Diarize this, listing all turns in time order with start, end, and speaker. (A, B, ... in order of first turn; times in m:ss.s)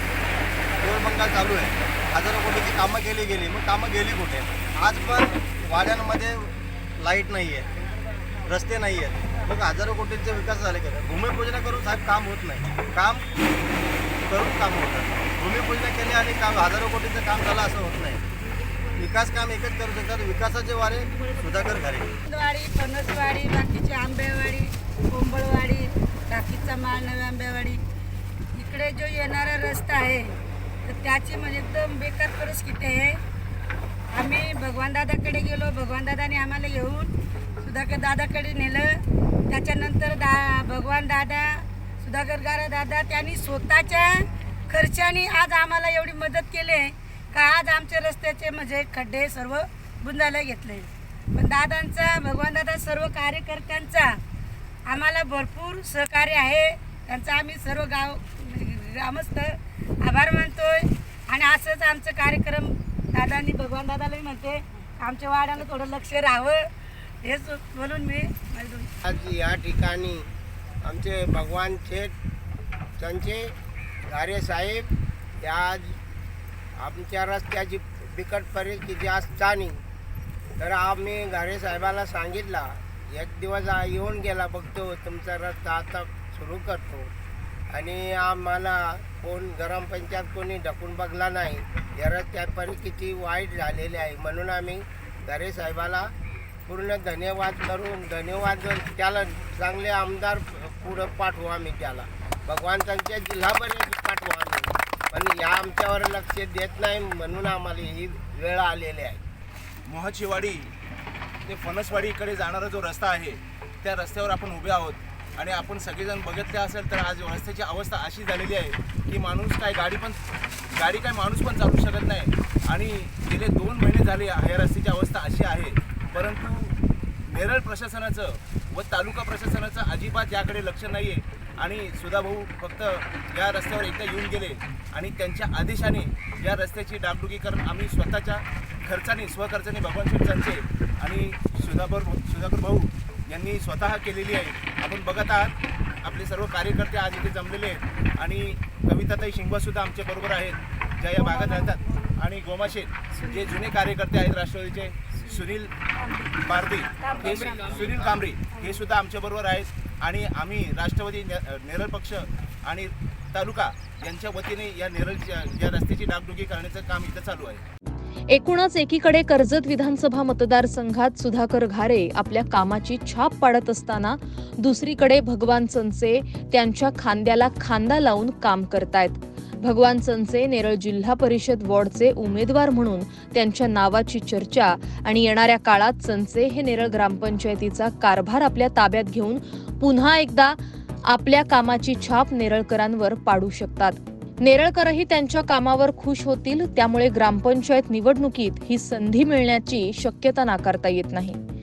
0:00.8-0:07.7 A
0:08.5-0:13.2 A
0:14.3-0:18.2 A
0:19.0-0:22.1 A
0:22.3-0:27.8 B
0:28.5-0:33.2 B
0:34.1-0:39.0 B
0:39.5-0:54.2 B
0:54.8-1:06.7 B
1:07.2-1:08.9 B
1:09.0-1:10.3 C
1:10.8-1:12.1 C
1:13.0-1:13.5 C
1:14.1-1:16.0 C
1:16.8-1:19.8 C
1:20.6-1:27.1 C
1:27.7-1:36.1 C
1:36.7-1:49.2 C
1:49.9-1:50.7 D
1:51.4-2:00.2 D
2:00.7-2:06.7 D
2:07.3-2:35.7 D
2:31.2-2:32.0 B
2:33.2-2:33.6 B
2:35.3-2:36.3 B
2:36.4-2:47.6 D
2:37.0-2:38.8 B
2:48.3-3:21.4 E